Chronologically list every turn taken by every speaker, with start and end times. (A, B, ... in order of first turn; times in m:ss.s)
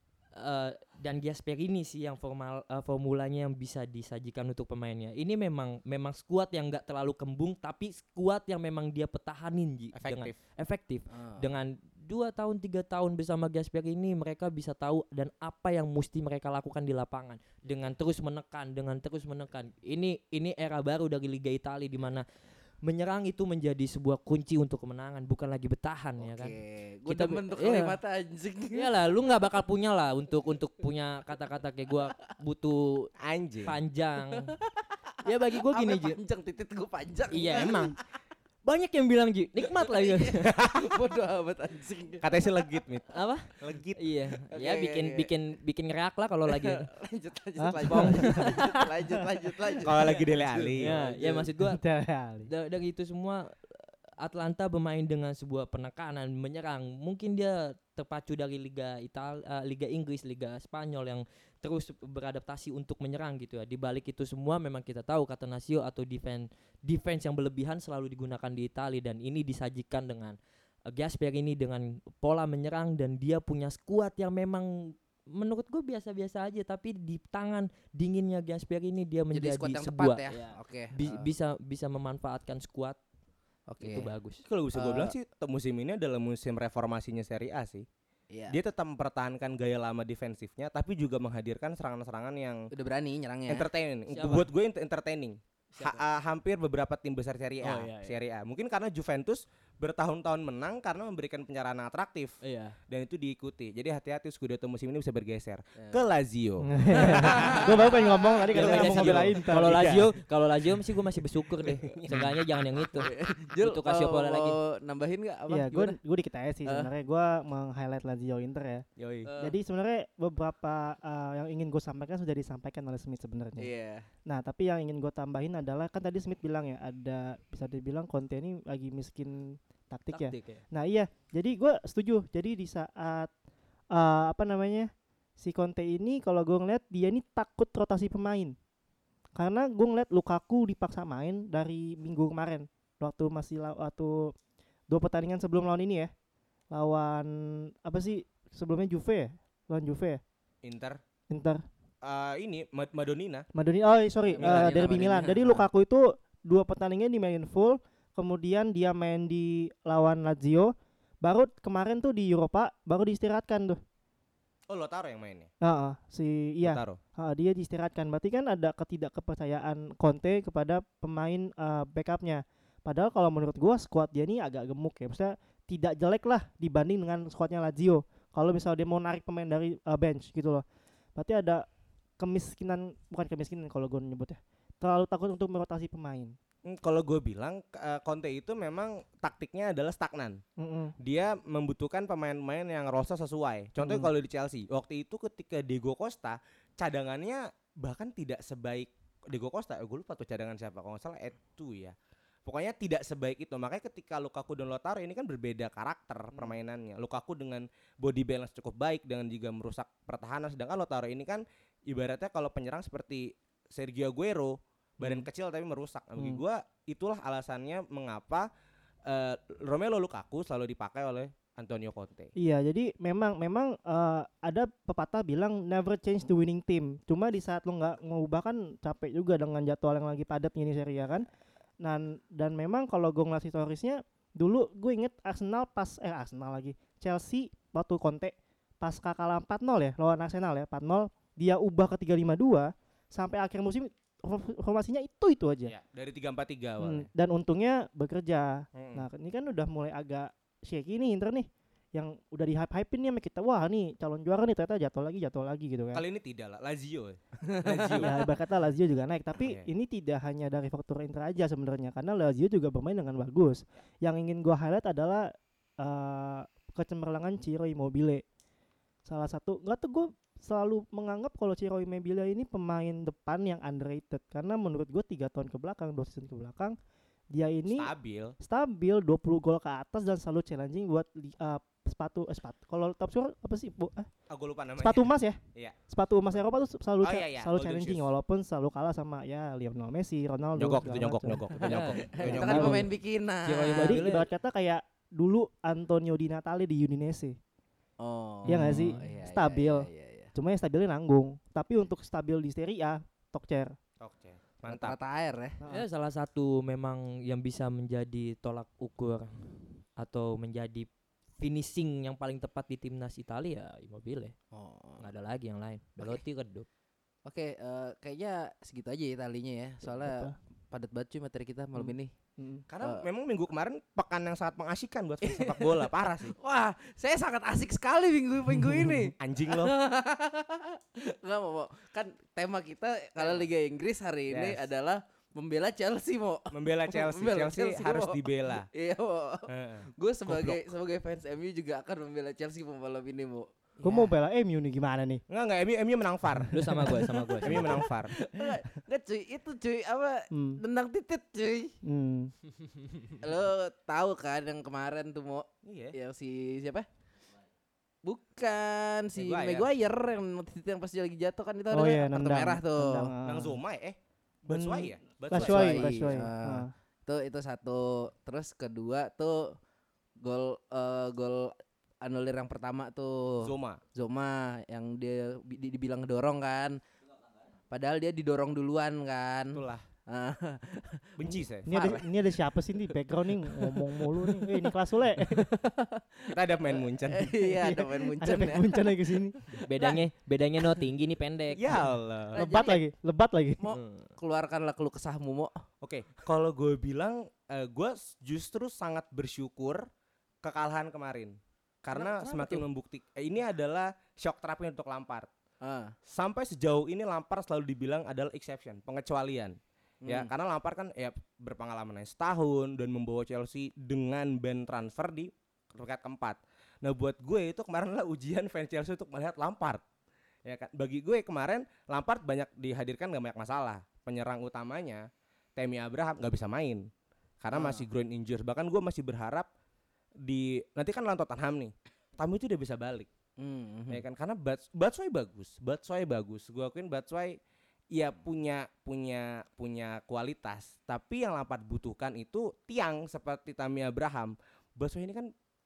0:00.3-0:22.2 A
0:09.9-0:10.4 B
0:11.1-0:11.4 C
0:22.8-0:26.5 A
0:26.2-0:28.9 C
0:27.0-0:28.0 A
0:28.7-0:33.1 A
0:33.2-0:33.7 B
0:33.6-0:34.5 A
0:35.2-0:36.2 A
0:35.7-0:38.0 C
0:37.3-0:38.0 A
0:38.6-0:40.5 A
0:39.7-0:42.7 C
0:40.4-0:40.9 B
0:42.2-0:44.0 B
0:43.1-0:46.9 A
0:44.5-0:45.3 C
0:46.5-0:51.5 C
0:47.6-0:48.6 D
0:47.8-0:48.8 A
0:49.8-0:51.0 B
0:50.8-0:51.8 A
0:51.6-0:52.5 D
0:52.4-1:10.4 A
1:10.9-1:23.0 A
1:19.3-1:21.3 C
1:23.7-1:24.1 C
1:23.8-1:24.4 A
1:24.4-1:27.8 B
1:24.7-1:25.1 C
1:28.3-1:28.6 C
1:28.5-1:32.7 B
1:32.7-1:33.7 C
1:33.5-1:42.4 B
1:34.1-1:34.5 A
1:35.7-1:36.0 A
1:37.6-1:38.2 A
1:42.4-1:42.8 A
1:42.9-1:48.0 B
1:45.8-1:46.0 C
1:46.7-1:49.8 D
1:46.9-1:48.7 C
1:48.5-1:50.1 B
1:48.5-1:53.1 A
1:51.6-1:52.4 B
1:53.0-1:56.0 C
1:53.6-1:54.6 A
1:55.5-1:58.8 D
1:56.6-1:56.9 C
1:59.0-1:59.3 B
1:59.3-1:59.6 C
1:59.4-2:03.7 D
2:03.6-2:04.1 C
2:04.2-2:13.3 D
2:10.1-2:10.6 A
2:13.9-2:18.6 D
2:19.4-2:24.3 D
2:24.9-2:26.1 D
2:26.7-2:30.2 D
2:30.6-2:31.0 B
2:31.3-2:31.6 D
2:32.0-2:33.5 B
2:33.5-2:43.8 D
2:34.3-2:35.7 C
2:34.4-2:34.7 B
2:44.7-2:45.5 B
2:45.6-3:00.6 D
2:46.6-2:47.0 B
3:01.2-3:01.6 D
3:02.2-3:06.3 D
3:06.6-3:10.4 B
3:10.6-3:10.9 D
3:11.0-3:38.5 B
3:13.8-3:14.1 D
3:35.0-3:35.3 D
3:39.0-3:42.3 B
3:42.4-3:51.3 D
3:51.8-4:05.7 D
4:05.7-4:07.1 B
4:06.8-4:16.0 D
4:08.7-4:09.1 B
4:15.9-4:18.1 B
4:17.5-4:18.1 C
4:17.9-4:28.2 D
4:19.4-4:19.7 B
4:29.0-4:36.8 D
4:37.3-4:44.1 D
4:37.6-4:38.4 B
4:44.3-4:45.8 B
4:44.8-4:51.4 D
4:47.0-4:48.1 B
4:50.6-4:52.9 B
4:51.6-4:52.1 A
4:51.7-4:54.1 C
4:52.2-4:52.9 D
4:53.4-4:54.2 A
4:53.7-4:57.4 D
4:58.0-5:00.3 C
4:58.4-5:03.8 D
4:58.5-4:59.0 A
5:04.0-5:05.0 B
5:04.6-5:05.6 C
5:05.7-5:14.3 A
5:14.5-5:15.0 C
5:15.0-5:16.6 A
5:17.2-5:22.1 C
5:19.8-5:20.3 D
5:21.8-5:22.6 D
5:22.7-5:26.3 B
5:25.2-5:44.1 C
5:29.2-5:29.7 B
5:33.2-5:33.5 B
5:34.3-5:34.6 B
5:36.5-5:38.7 B
5:39.5-5:40.6 B
5:43.8-5:45.2 D
5:45.3-5:46.6 B
5:46.5-5:47.8 A
5:47.4-5:48.1 B
5:47.4-5:51.7 C
5:50.3-5:50.6 D
5:51.8-5:52.3 D
5:53.2-5:56.8 C
5:55.6-5:56.0 B
5:58.0-6:03.1 C
5:59.2-5:59.7 B
6:01.7-6:03.6 D
6:03.2-6:06.0 B
6:04.5-6:06.7 D
6:05.3-6:09.6 C
6:10.2-6:16.8 C
6:13.4-6:13.8 B
6:17.7-6:22.0 C
6:19.5-6:19.8 B
6:21.2-6:22.0 B
6:21.7-6:25.5 D
6:23.4-6:24.7 C
6:25.2-6:30.0 C
6:26.3-6:27.3 B
6:27.5-6:29.4 D
6:29.6-6:31.8 A
6:31.5-6:32.4 B
6:31.7-6:33.6 D
6:32.3-6:32.8 C
6:33.6-6:35.6 C
6:33.7-6:34.1 A
6:35.8-6:39.9 B
6:40.4-6:45.3 B
6:41.9-6:42.6 C
6:45.6-6:45.9 C
6:46.0-6:59.8 B
6:50.0-6:50.3 C
7:00.4-7:06.9 B
7:07.4-7:09.5 B
7:07.5-7:07.8 C
7:10.2-7:13.1 B
7:13.4-7:14.0 C
7:13.9-7:17.4 B
7:17.9-7:25.3 B